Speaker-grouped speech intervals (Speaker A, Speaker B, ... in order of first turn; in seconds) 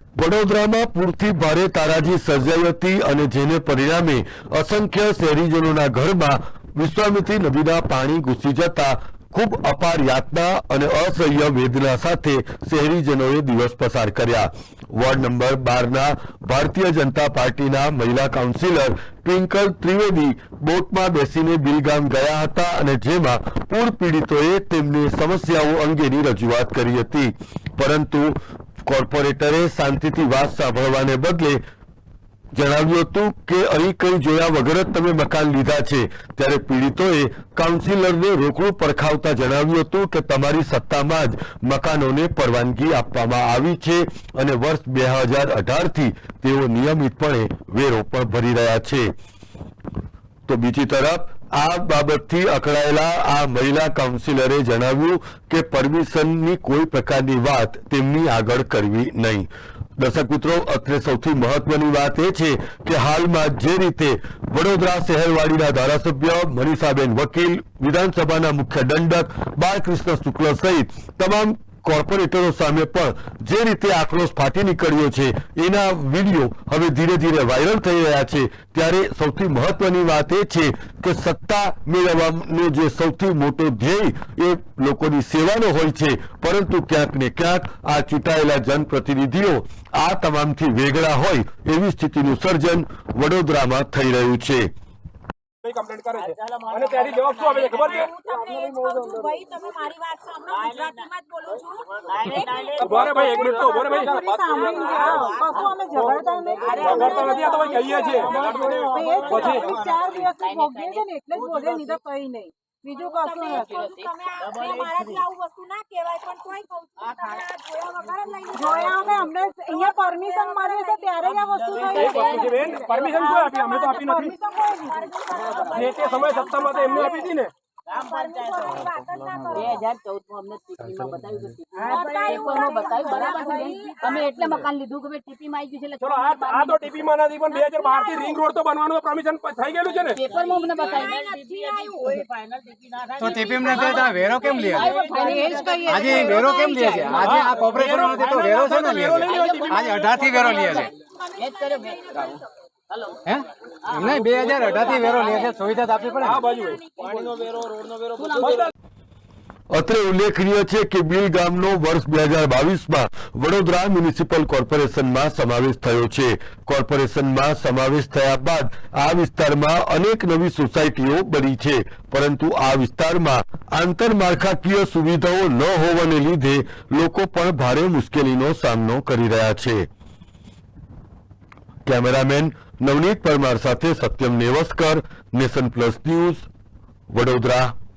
Speaker A: 0.2-31.6, 32.5-49.1, 50.5-94.7, 159.7-179.9, 181.9-186.5, 187.1-187.7
Speaker B: 95.6-98.1, 102.8-109.9, 121.9-124.4, 125.5-127.5, 136.0-140.2, 147.2-149.8, 156.2-157.4, 158.4-158.7
Speaker C: 97.7-103.1, 106.6-107.0, 108.2-108.7, 112.9-121.3, 122.2-122.7, 125.0-127.3, 128.2-129.9, 131.8-134.5, 137.5-138.4, 140.3-142.2, 143.8-144.2, 145.1-146.0, 149.1-152.4, 156.5-157.1
Speaker D: 102.4-102.8, 106.5-106.9, 110.3-111.6, 113.8-114.1, 121.7-122.5, 125.5-125.8, 129.5-137.0, 140.1-141.4, 142.9-144.1, 144.7-147.3, 149.4-149.7, 151.4-152.4, 153.9-155.5, 158.2-158.6
Speaker E: 103.2-113.8, 118.5-126.0, 128.0-128.9, 131.8-134.0, 144.3-147.1
Speaker F: 143.2-145.0, 145.8-150.9, 153.2-156.5